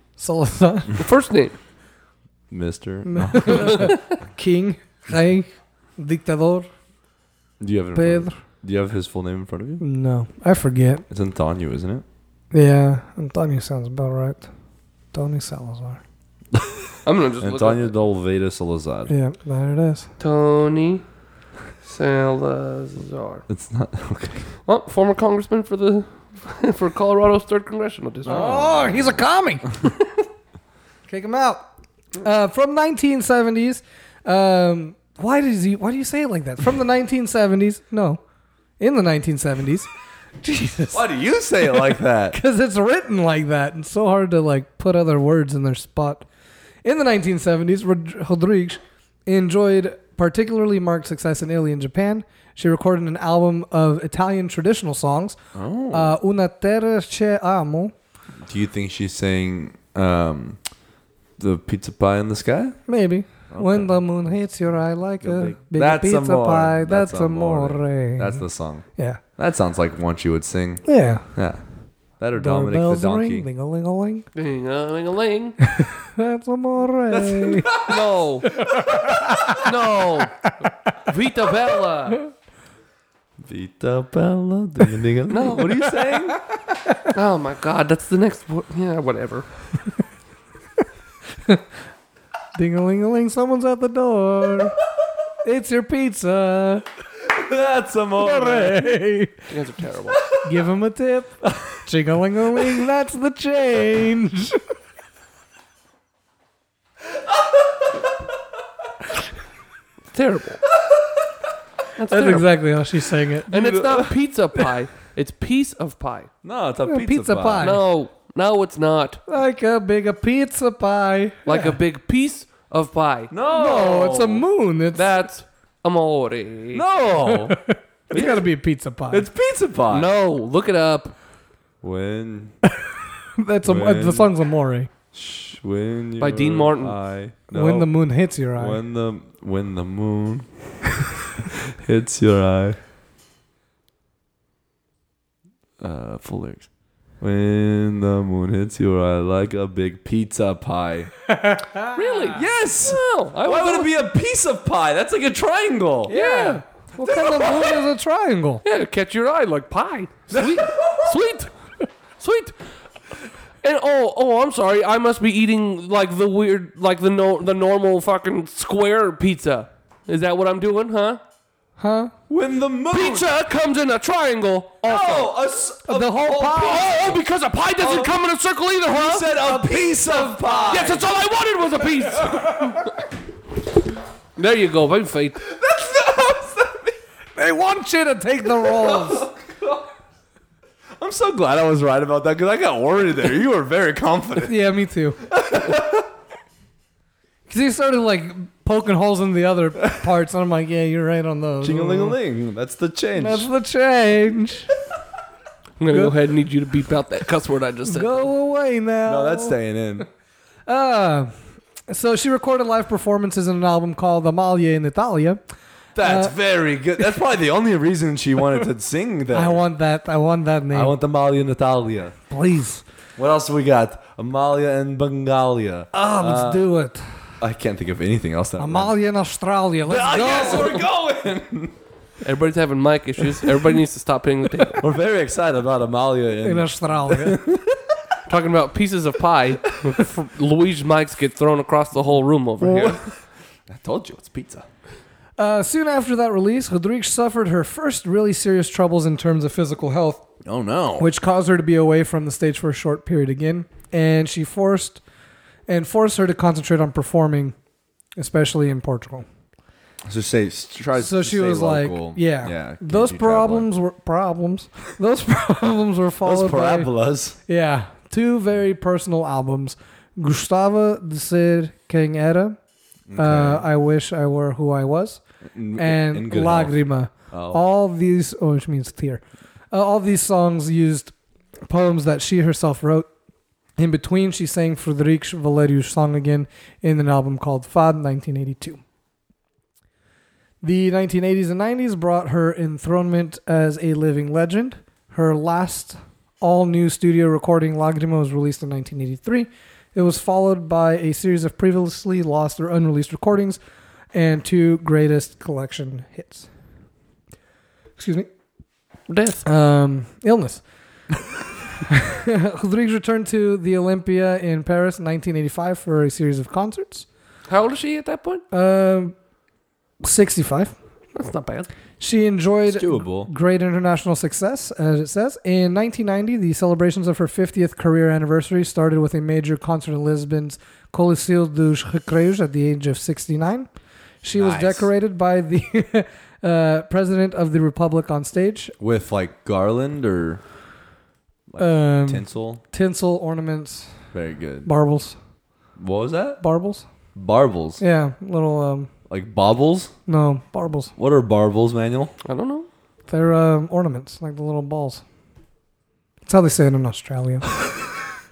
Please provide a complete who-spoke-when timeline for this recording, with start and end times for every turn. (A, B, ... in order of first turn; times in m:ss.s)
0:00.2-0:01.0 A
0:00.9-0:01.5 B
0:02.5-0:03.9 C
0:03.0-0:06.7 A
0:03.5-0:03.9 B
0:07.6-0:09.8 C
0:07.9-0:08.4 A
0:09.8-0:11.0 A
0:11.1-0:12.0 C
0:12.5-0:14.5 A
0:15.1-0:16.0 A
0:16.5-0:16.8 C
0:17.0-0:17.9 B
0:17.4-0:19.1 C
0:19.1-0:20.1 A
0:20.2-0:21.0 B
0:21.8-0:23.4 B
0:23.5-0:24.5 C
0:24.6-0:28.6 B
0:28.2-0:29.2 C
0:28.2-0:29.8 A
0:31.1-0:31.6 A
0:32.2-0:38.2 A
0:38.8-0:39.9 A
0:40.4-0:41.0 A
0:40.9-0:42.4 C
0:41.6-0:46.2 A
0:46.8-0:55.4 A
0:55.5-0:56.2 C
0:55.9-0:57.9 A
0:58.4-1:00.6 C
1:01.4-1:02.8 C
1:02.9-1:08.4 A
1:03.5-1:04.0 C
1:05.2-1:11.6 C
1:10.8-1:11.3 A
1:12.2-1:13.4 C
1:12.3-1:14.2 A
1:14.3-1:15.6 B
1:15.8-1:17.8 A
1:17.1-1:18.0 C
1:17.8-1:18.6 B
1:18.6-1:19.1 C
1:18.8-1:19.6 A
1:19.6-1:20.5 B
1:21.0-1:22.2 B
1:23.4-1:26.4 C
1:25.3-1:26.0 B
1:27.1-1:29.5 B
1:32.5-1:34.8 A
1:35.4-1:36.8 A
1:37.2-1:38.9 C
1:38.2-1:39.4 A
1:39.5-1:40.2 B
1:40.4-1:44.6 A
1:50.1-1:50.6 B
1:52.0-1:52.5 B
1:52.1-1:53.5 A
1:53.5-1:56.3 B
1:53.5-1:54.1 C
1:56.4-1:57.8 C
1:56.8-1:57.8 A
1:57.6-1:59.2 B
1:59.3-2:01.8 A
2:01.4-2:03.3 B
2:03.3-2:04.4 C
2:03.5-2:05.1 A
2:04.9-2:06.8 B
2:06.7-2:07.6 C
2:07.2-2:09.2 A
2:08.1-2:08.4 C
2:09.1-2:10.1 C
2:09.9-2:11.1 B
2:11.8-2:12.5 C
2:13.4-2:14.9 A
2:13.6-2:14.3 C
2:15.1-2:17.9 C
2:16.2-2:17.0 B
2:17.5-2:18.8 A
2:18.6-2:20.5 C
2:21.4-2:22.8 C
2:25.8-2:26.7 C
2:27.2-2:31.1 C
2:31.3-2:32.3 A
2:31.9-2:33.9 B
2:32.3-2:36.1 C
2:36.1-2:38.6 A
2:36.1-2:36.6 B
2:37.1-2:37.7 C
2:37.2-2:37.5 B
2:38.6-2:41.5 B
2:40.3-2:41.1 C
2:42.2-2:42.6 B
2:43.6-2:51.2 B
2:51.8-2:52.1 A
2:52.3-2:53.3 C
2:52.9-2:55.3 B
2:54.8-2:57.2 C
2:55.8-2:56.9 A
2:56.5-2:59.5 B
2:57.8-2:58.2 C
2:58.9-3:01.1 C
2:59.4-3:01.0 A
3:00.6-3:02.9 B
3:04.4-3:05.5 B
3:05.5-3:06.9 C
3:07.4-3:09.3 A
3:08.6-3:09.8 C
3:11.0-3:14.6 C
3:14.4-3:15.2 A
3:15.3-3:16.1 C
3:17.5-3:22.2 A
3:21.6-3:23.5 C
3:23.2-3:24.7 A
3:25.8-3:28.2 B
3:27.8-3:29.6 A
3:29.0-3:30.1 C
3:30.7-3:31.3 A
3:31.9-3:35.4 A
3:35.9-3:39.6 C
3:36.0-3:36.3 A
3:39.3-3:40.9 A
3:40.7-3:42.1 C
3:42.3-3:42.8 A
3:43.2-3:46.6 C
3:45.9-3:47.2 A
3:47.4-3:48.9 C
3:48.6-3:50.8 A
3:49.8-3:51.7 C
3:52.2-3:54.8 B
3:54.8-3:58.0 C
3:56.4-3:57.4 A
3:58.3-4:03.0 B
4:02.6-4:04.7 C
4:05.4-4:10.2 A
4:10.4-4:11.1 C
4:11.0-4:15.0 A
4:15.7-4:17.5 A
4:18.2-4:19.2 A
4:20.0-4:23.7 C
4:21.0-4:26.9 A
4:26.2-4:27.4 C
4:27.4-4:32.6 A
4:33.1-4:33.6 C
4:33.2-4:35.2 A
4:35.5-4:36.8 C
4:35.8-4:41.1 A
4:37.3-4:37.6 C
4:41.7-4:43.1 A
4:43.8-4:48.8 A
4:50.6-5:03.6 A
5:04.1-5:06.5 A
5:08.0-5:08.3 A
5:09.1-5:09.4 B
5:09.4-5:10.6 A
5:11.9-5:17.1 A
5:17.5-5:18.4 B
5:18.5-5:19.1 A
5:20.0-5:20.7 A
5:21.1-5:21.7 B
5:22.0-5:33.7 A
5:22.7-5:23.3 C
5:34.2-5:38.7 A
5:34.3-5:34.9 C
5:38.8-5:40.4 C
5:41.5-5:42.6 C
5:41.6-5:44.0 A
5:44.1-5:44.7 C
5:44.6-5:45.2 A
5:45.8-5:46.4 C
5:46.4-5:46.8 A
5:47.1-5:47.8 C
5:47.8-5:48.9 A
5:49.1-5:49.9 C
5:50.1-5:50.9 A
5:51.0-5:52.1 C
5:52.2-5:52.7 B
5:53.1-5:55.0 A
5:56.2-5:57.4 A